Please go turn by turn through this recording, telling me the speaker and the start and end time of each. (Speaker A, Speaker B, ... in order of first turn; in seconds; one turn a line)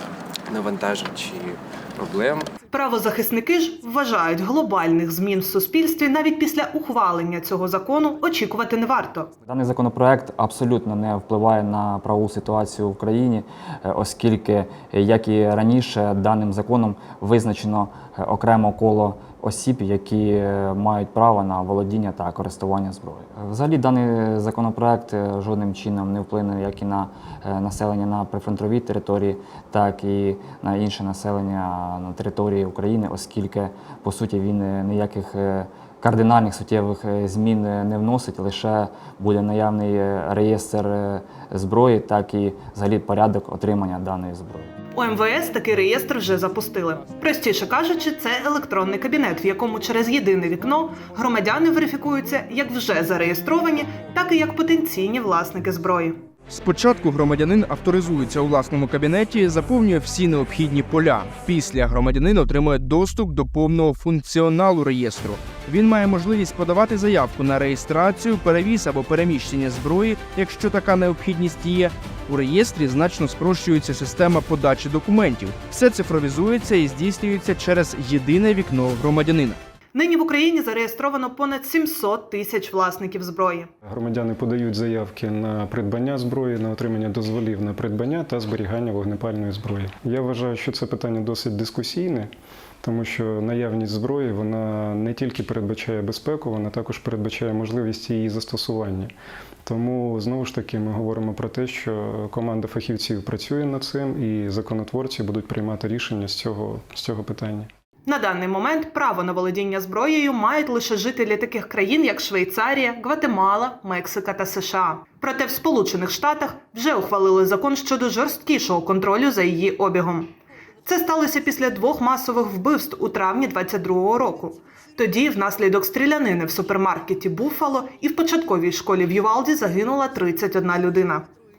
Speaker A: 0.5-2.5
Speaker B: 2.7-9.3
Speaker C: 9.5-44.7
Speaker B: 44.9-56.2
Speaker D: 56.5-79.6
Speaker B: 79.9-83.7
Speaker E: 83.8-92.3
Speaker E: 92.8-99.1
Speaker E: 99.6-107.7
Speaker B: 108.0-120.3
Speaker B: 120.8-131.3